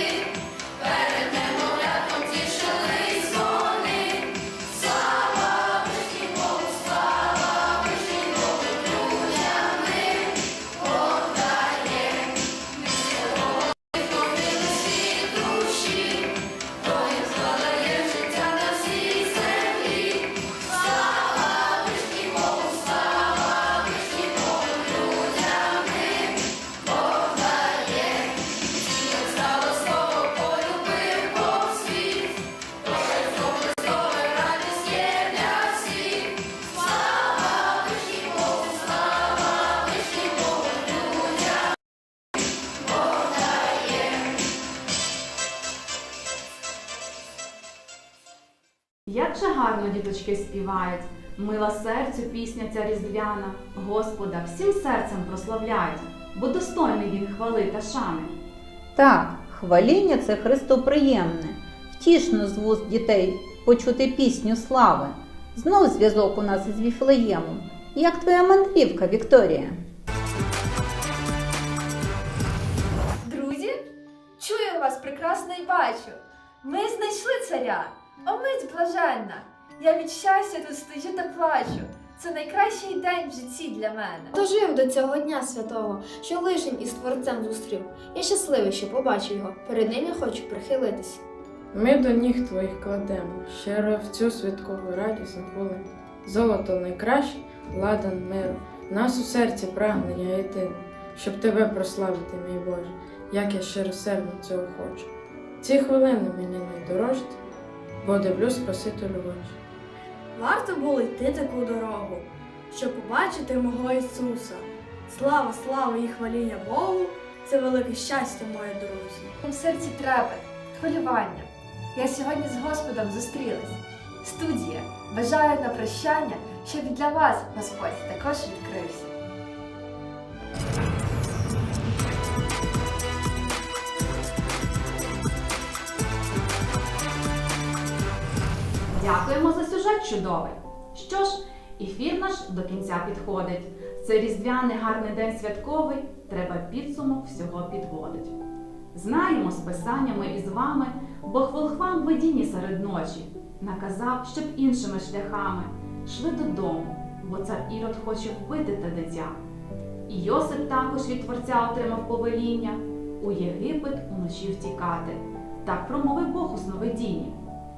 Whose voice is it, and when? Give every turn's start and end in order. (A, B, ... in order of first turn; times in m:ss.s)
0:49.1-0:58.4 A
0:58.9-1:09.8 B
1:13.2-1:13.8 C
1:14.4-1:24.3 C
1:24.3-1:31.2 D
1:31.7-1:45.1 E
1:45.6-1:47.4 E
1:48.0-1:49.6 E
1:50.4-1:59.3 F
1:59.4-2:09.1 C
2:18.9-2:28.3 A
2:28.9-2:39.4 A
2:40.1-2:47.4 A